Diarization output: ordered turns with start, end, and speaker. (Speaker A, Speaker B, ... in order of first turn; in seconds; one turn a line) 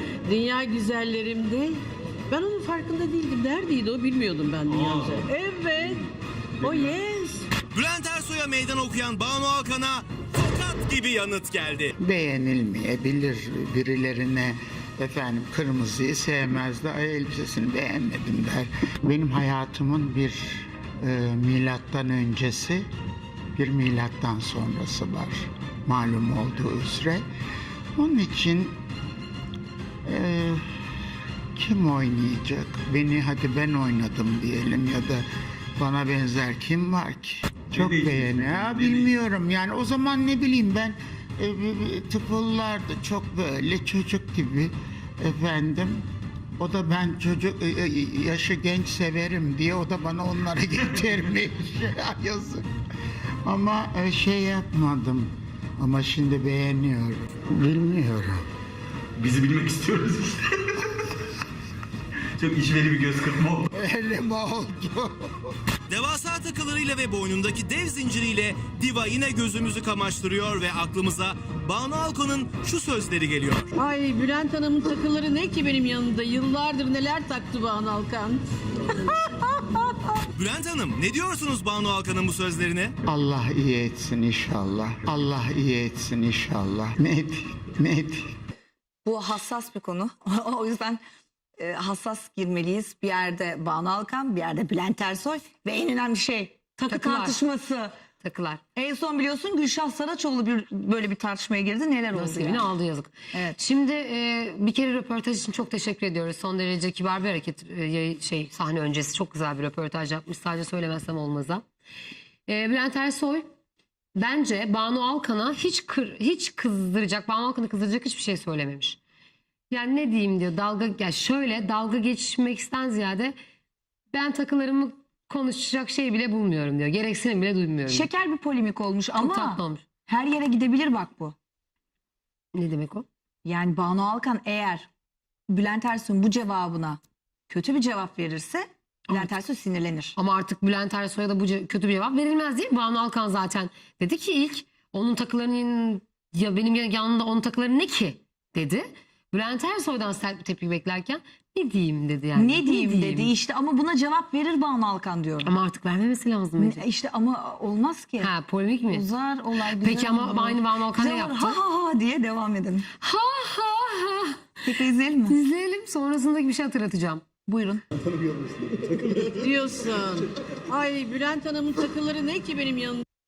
Speaker A: 0.2-1.7
Speaker A: 2.3-6.1
Speaker B: 4.7-5.3
Speaker B: 6.6-7.0
Speaker A: 6.6-7.5
Speaker C: 7.7-11.9
Speaker D: 12.0-22.9
Speaker D: 23.6-27.2
Speaker D: 28.0-28.8
Speaker D: 30.1-30.6
Speaker D: 31.6-35.2
Speaker D: 35.8-46.0
Speaker B: 37.7-39.1
Speaker D: 46.6-52.6
Speaker D: 53.5-58.4
Speaker B: 59.2-60.8
Speaker B: 62.4-63.7
Speaker D: 63.7-65.5
Speaker C: 65.9-73.7
Speaker A: 73.8-78.4
Speaker A: 79.0-80.2
Speaker C: 80.3-82.9
Speaker D: 83.1-88.3
Speaker E: 89.0-91.0
Speaker E: 91.6-97.9
Speaker F: 96.9-97.4
Speaker F: 98.2-98.6
Speaker E: 98.8-102.7
Speaker F: 102.1-111.7
Speaker F: 112.5-113.5
Speaker F: 114.2-119.0
Speaker F: 119.7-123.3
Speaker F: 124.1-128.1
Speaker E: 127.9-131.3
Speaker F: 129.2-129.8
Speaker F: 132.6-133.1
Speaker E: 133.4-134.9
Speaker E: 135.5-140.2
Speaker F: 140.2-153.3
Speaker E: 152.3-155.5
Speaker F: 155.4-156.8
Speaker E: 156.6-158.3
Speaker F: 158.2-159.1
Speaker E: 158.9-162.9
Speaker F: 159.7-161.6
Speaker F: 163.0-164.4
Speaker E: 164.7-165.4
Speaker F: 165.3-167.2
Speaker E: 167.5-167.8
Speaker B: 168.0-169.2
Speaker A: 169.3-173.0